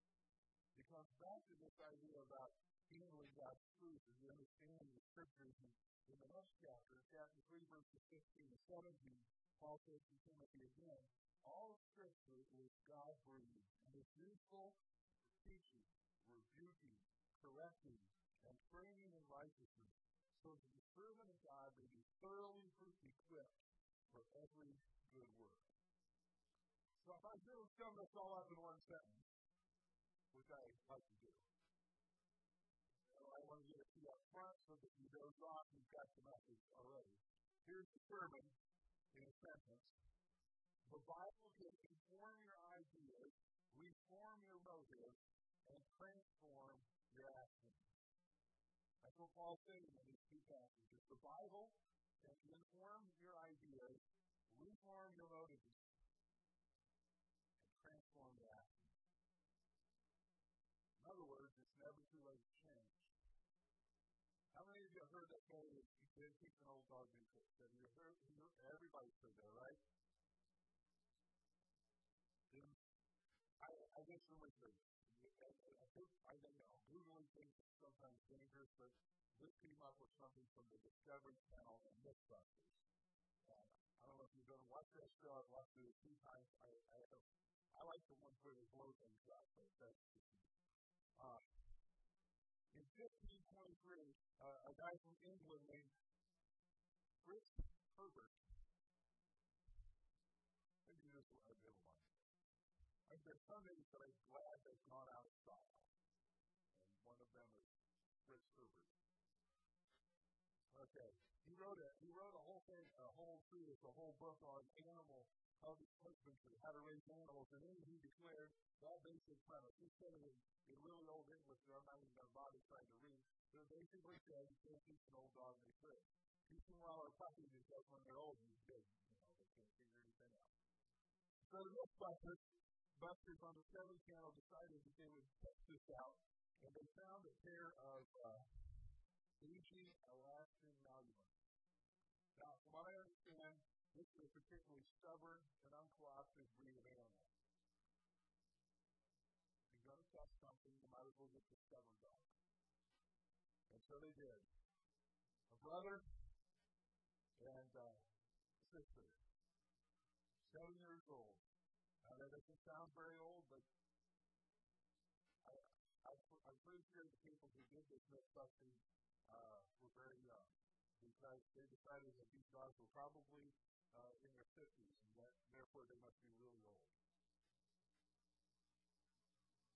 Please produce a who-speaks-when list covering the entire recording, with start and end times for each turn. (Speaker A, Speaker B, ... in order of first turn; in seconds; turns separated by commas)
Speaker A: 0.8-25.7, Speaker A: 27.0-29.3, Speaker A: 30.3-31.5, Speaker A: 33.1-38.6, Speaker A: 39.1-40.0, Speaker A: 40.9-47.9, Speaker A: 49.0-55.8, Speaker A: 57.6-58.9, Speaker A: 61.0-63.1, Speaker A: 64.5-69.8, Speaker A: 72.5-72.8, Speaker A: 73.6-82.8, Speaker A: 83.4-90.5, Speaker A: 91.2-91.4, Speaker A: 92.7-96.0, Speaker A: 97.2-98.4, Speaker A: 100.8-102.1, Speaker A: 103.1-105.9, Speaker A: 106.7-107.7, Speaker A: 108.2-108.9, Speaker A: 110.7-130.5, Speaker A: 131.4-138.7, Speaker A: 139.4-141.3, Speaker A: 142.3-147.3, Speaker A: 149.7-152.3, Speaker A: 153.7-154.5, Speaker A: 155.5-156.1, Speaker A: 157.4-158.1, Speaker A: 158.6-159.2, Speaker A: 160.4-161.4, Speaker A: 162.0-163.7, Speaker A: 165.4-176.9